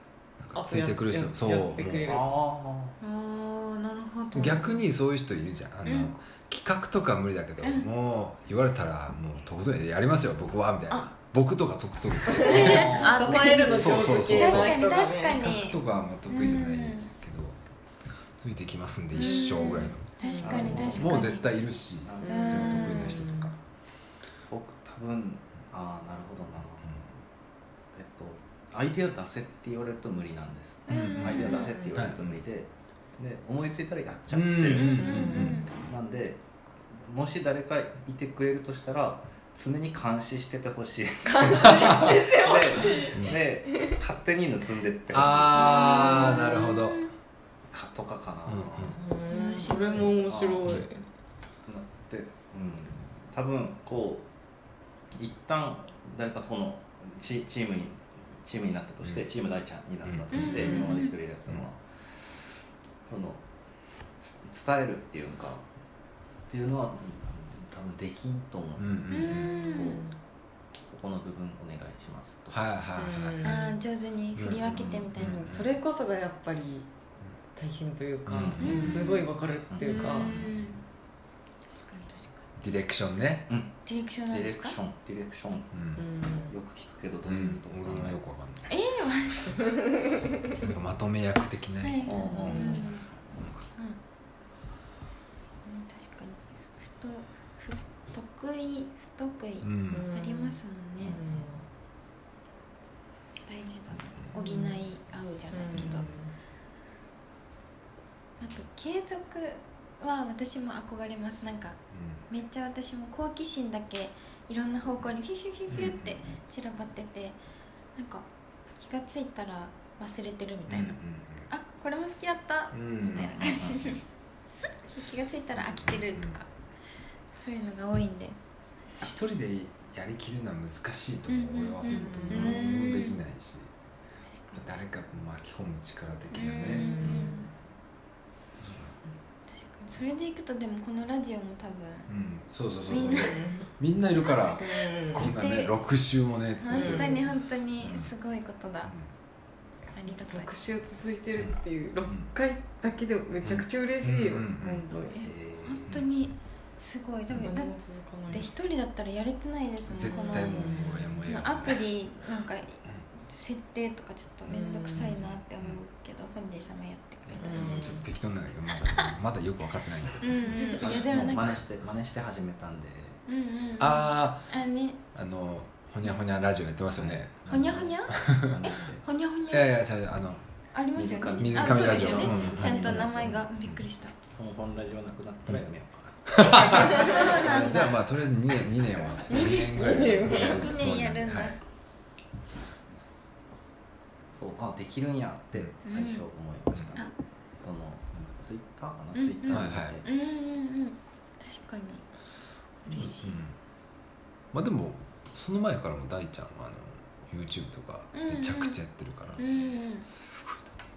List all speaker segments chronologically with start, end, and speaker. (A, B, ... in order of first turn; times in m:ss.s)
0:00.4-0:02.0 A
0:00.5-0:02.2 B
0:01.8-0:02.9 C
0:03.0-0:04.8 D
0:04.3-0:17.6 A
0:05.8-0:06.1 D
0:12.3-0:15.6 B
0:12.4-0:17.1 D
0:12.5-0:13.4 C
0:18.4-0:23.6 A
0:19.1-0:21.5 D
0:19.2-0:20.9 B
0:20.4-0:21.3 C
0:22.0-0:22.4 C
0:22.2-0:23.5 B
0:22.3-0:23.2 D
0:24.5-0:27.0 C
0:27.9-0:35.1 C
0:30.9-0:31.7 D
0:30.9-0:32.2 A
0:34.3-0:35.6 A
0:34.7-0:35.7 D
0:35.0-0:35.6 B
0:35.7-0:36.4 C
0:36.9-0:45.8 C
0:41.2-0:44.0 B
0:41.6-0:42.1 A
0:45.1-0:47.1 A
0:45.5-0:47.1 D
0:45.6-0:46.8 B
0:47.7-0:49.0 C
0:48.5-0:49.0 A
0:49.0-0:51.0 B
0:49.3-0:50.1 D
0:50.0-0:50.7 C
0:51.6-0:54.2 C
0:55.2-1:01.8 C
1:00.0-1:00.7 A
1:00.3-1:01.1 D
1:00.5-1:01.0 B
1:03.0-1:03.4 C
1:04.2-1:05.6 C
1:06.5-1:10.0 C
1:08.8-1:09.5 A
1:09.1-1:10.0 D
1:09.2-1:10.1 B
1:10.9-1:12.6 C
1:12.5-1:13.6 A
1:13.0-1:13.8 B
1:13.4-1:15.5 D
1:14.3-1:15.7 A
1:15.2-1:16.9 B
1:17.6-1:20.3 B
1:18.3-1:19.1 A
1:18.3-1:18.9 C
1:18.6-1:19.2 D
1:19.7-1:20.5 C
1:19.8-1:20.8 D
1:21.7-1:22.4 D
1:22.6-1:23.5 A
1:23.5-1:23.7 C
1:23.8-1:24.8 D
1:24.3-1:25.7 C
1:25.7-1:26.0 A
1:26.0-1:26.5 B
1:26.5-1:28.2 C
1:27.3-1:28.7 A
1:28.7-1:29.8 D
1:30.6-1:32.3 A
1:31.8-1:33.1 D
1:32.0-1:32.8 C
1:32.2-1:32.9 B
1:33.4-1:33.7 A
1:35.6-1:41.2 D
1:39.6-1:40.0 A
1:39.9-1:41.6 B
1:43.5-1:46.1 D
1:44.3-1:44.8 B
1:45.5-1:46.3 B
1:48.4-1:57.4 D
1:51.9-1:52.2 A
1:55.7-1:56.2 A
1:58.0-1:58.2 D
1:58.8-2:01.0 D
2:00.7-2:01.5 A
2:01.5-2:04.0 D
2:02.7-2:03.6 A
2:03.6-2:03.9 C
2:04.9-2:06.4 D
2:05.6-2:06.4 A
2:07.4-2:08.4 D
2:09.0-2:13.7 A
2:11.3-2:13.2 D
2:11.8-2:12.7 B
2:14.4-2:14.8 D
2:14.5-2:17.0 A
2:16.3-2:17.4 D
2:16.6-2:17.5 B
2:18.6-2:19.0 A
2:19.6-2:22.1 D
2:22.1-2:28.1 A
2:22.9-2:23.4 D
2:23.0-2:23.7 B
2:24.6-2:25.3 B
2:25.2-2:25.7 D
2:26.6-2:28.9 D
2:26.7-2:27.3 B
2:29.9-2:30.5 D
2:30.1-2:35.3 B
2:33.4-2:34.8 A
2:35.2-2:35.9 C
2:35.6-2:37.8 D
2:37.4-2:38.5 B
2:38.3-2:48.0 D
2:39.9-2:41.9 A
2:40.0-2:41.2 B
2:44.5-2:45.2 B
2:45.2-2:45.8 A
2:47.4-2:48.0 B
2:47.5-2:50.8 A
2:48.8-2:49.1 D
2:50.2-2:51.6 D
2:50.8-2:53.2 C
2:53.3-2:55.0 D
2:53.8-2:54.5 A
2:55.1-2:58.5 A
2:57.0-2:59.0 C
2:57.5-2:58.2 D
2:59.0-2:59.7 D
2:59.5-3:00.4 A
3:00.7-3:04.1 D
3:00.9-3:03.4 C
3:01.4-3:03.8 A
3:04.3-3:07.1 C
3:06.3-3:11.6 A
3:06.4-3:08.1 D
3:06.6-3:07.3 B
3:09.3-3:10.9 B
3:09.3-3:11.6 D
3:14.3-3:20.0 C
3:15.8-3:16.2 D
3:19.1-3:22.0 D
3:19.5-3:19.9 A
3:22.8-3:23.4 D
3:22.9-3:23.5 A
3:24.5-3:29.4 A
3:28.1-3:28.8 D
3:29.3-3:29.6 C
3:29.4-3:30.0 D
3:30.0-3:30.7 A